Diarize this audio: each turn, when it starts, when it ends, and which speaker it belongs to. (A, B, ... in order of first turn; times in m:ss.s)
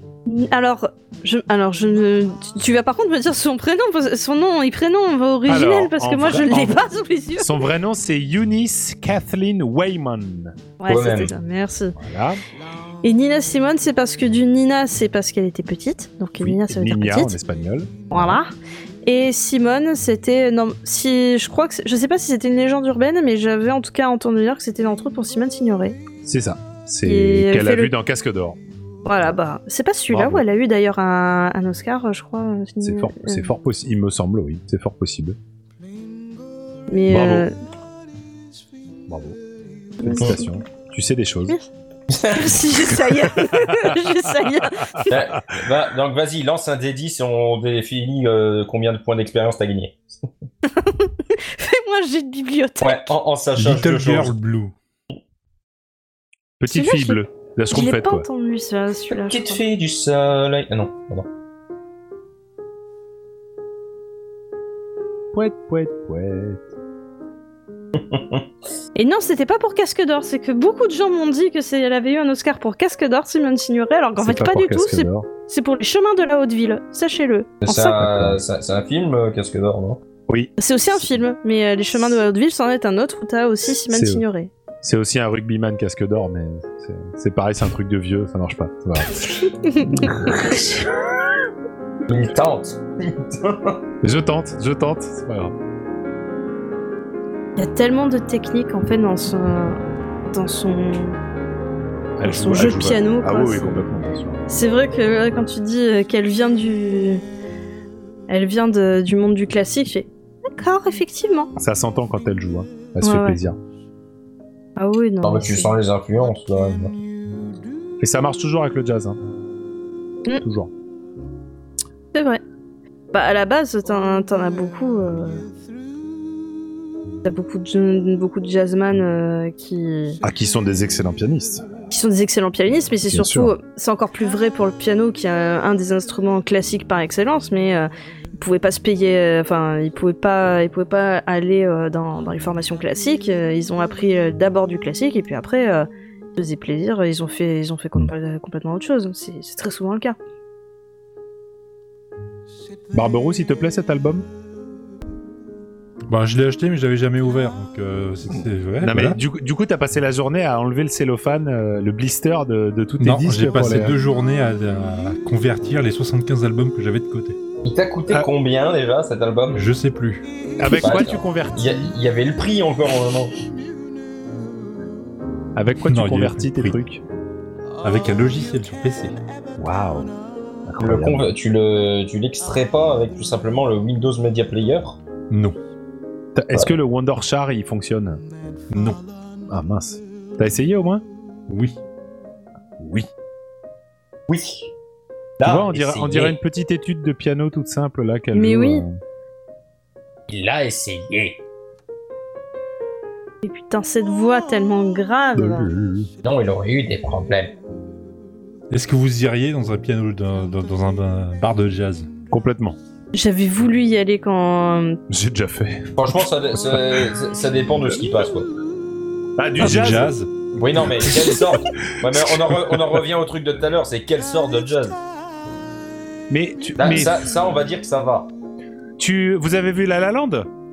0:00.3-0:07.7 A
0:05.5-0:06.8 B
0:07.4-0:10.6 B
0:10.8-0:12.0 A
0:10.9-0:11.3 C
0:12.0-0:12.4 B
0:13.0-0:17.4 A
0:16.4-0:18.4 B
0:18.1-0:18.5 A
0:19.0-0:26.0 A
0:26.2-0:28.6 B
0:27.0-0:27.9 A
0:29.0-0:33.5 A
0:30.1-0:30.4 B
0:32.8-0:35.4 B
0:36.9-0:37.5 A
0:37.1-0:37.5 B
0:39.1-0:39.4 B
0:40.0-0:40.6 A
0:40.0-0:41.6 B
0:42.1-0:42.7 C
0:42.3-0:45.1 A
0:43.2-0:45.6 B
0:45.1-0:50.2 C
0:50.7-0:53.1 A
0:52.8-0:54.3 C
0:53.6-0:54.7 D
0:56.6-0:58.3 B
0:56.7-0:59.6 A
0:59.1-1:01.3 C
1:05.3-1:06.7 B
1:08.0-1:08.5 C
1:09.0-1:18.1 A
1:14.2-1:15.3 B
1:17.6-1:20.0 C
1:18.0-1:18.4 B
1:20.3-1:21.1 B
1:20.6-1:24.5 A
1:23.9-1:24.2 B
1:24.8-1:30.8 B
1:29.6-1:30.8 A
1:32.1-1:33.8 C
1:34.0-1:35.5 B
1:37.6-1:41.2 A
1:42.2-1:44.4 B
1:42.2-1:43.8 A
1:44.5-1:47.2 A
1:48.3-1:51.5 A
1:51.6-1:53.6 B
1:53.0-1:53.4 A
1:54.8-1:55.7 A
1:55.2-1:56.9 C
1:58.0-1:59.2 B
2:00.4-2:00.7 B
2:02.1-2:02.4 A
2:03.1-2:05.4 A
2:07.2-2:10.2 A
2:10.2-2:11.7 B
2:11.9-2:30.2 A
2:13.1-2:13.5 B
2:32.9-2:34.3 B
2:36.1-2:39.2 D
2:38.8-2:44.0 B
2:43.0-2:47.4 D
2:47.6-2:49.7 C
2:49.5-2:50.3 D
2:50.6-2:51.9 B
2:50.6-2:50.9 A
2:50.8-2:53.4 C
2:55.6-2:57.0 B
2:55.8-2:56.8 D
2:57.8-2:59.2 D
2:59.6-3:00.1 B
3:00.7-3:01.3 B
3:00.8-3:05.0 C
3:05.3-3:05.6 D
3:06.4-3:08.2 B
3:08.7-3:09.0 D
3:09.5-3:11.0 B
3:11.5-3:11.8 D
3:12.8-3:13.1 B
3:14.3-3:14.7 C
3:15.4-3:16.4 C
3:15.4-3:19.0 B
3:18.3-3:18.8 A
3:20.3-3:21.4 C
3:23.4-3:25.7 A
3:25.4-3:26.1 B
3:26.2-3:27.6 C
3:28.7-3:32.1 D
3:32.3-3:32.8 B
3:33.1-3:35.0 A
3:35.1-3:37.2 B
3:36.0-3:38.5 C
3:39.4-3:40.1 B
3:39.6-3:40.3 D
3:40.6-3:45.0 C
3:41.0-3:43.0 B
3:46.3-3:47.2 B
3:46.8-3:48.3 C
3:49.0-3:50.5 B